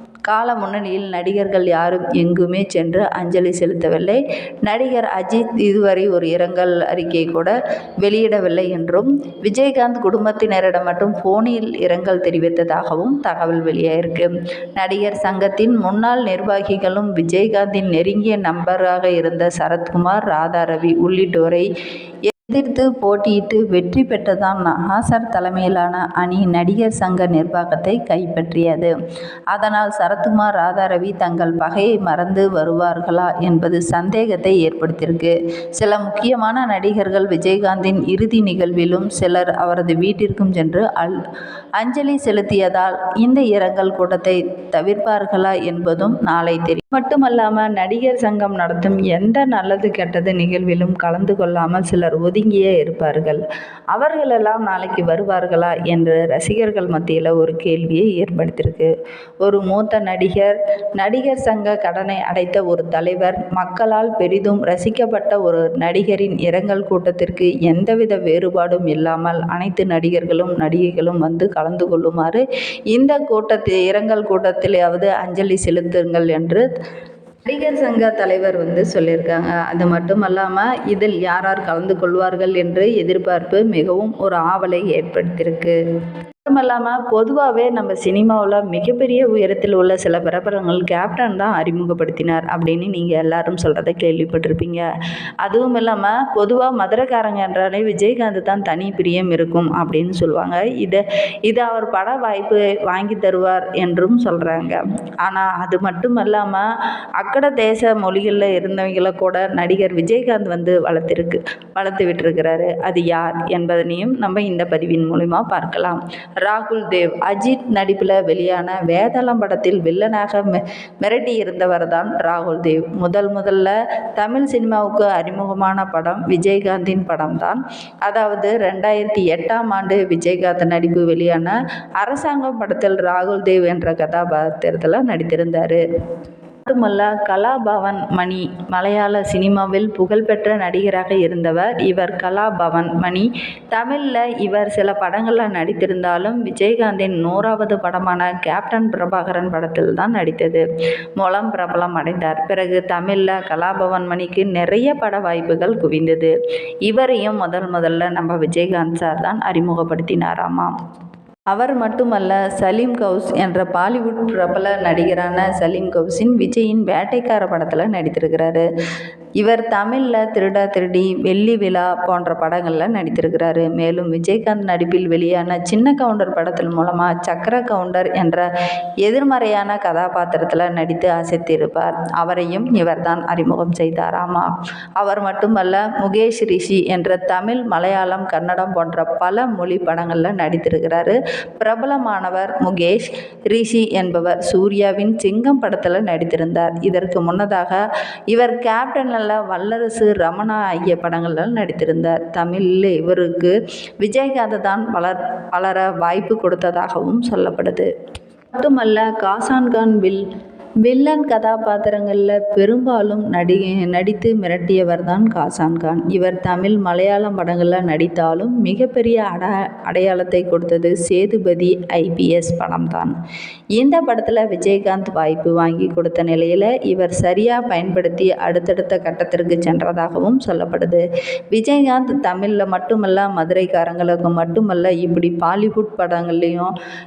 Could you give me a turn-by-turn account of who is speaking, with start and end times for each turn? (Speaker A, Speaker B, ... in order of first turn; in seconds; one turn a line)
Speaker A: 0.3-21.7
Speaker A: 22.3-28.9
Speaker A: 29.5-41.2
Speaker A: 41.8-53.4
Speaker A: 53.9-58.9
Speaker A: 59.4-76.7
Speaker A: 77.5-85.8
Speaker A: 86.5-94.8
Speaker A: 95.4-106.7
Speaker A: 107.2-135.8
Speaker A: 136.7-150.6
Speaker A: 151.2-156.3
Speaker A: 156.8-160.7
Speaker A: 161.5-168.7
Speaker A: 169.4-178.5
Speaker A: 179.0-207.9
Speaker A: 208.6-210.2
Speaker A: 210.8-223.1
Speaker A: 223.8-236.7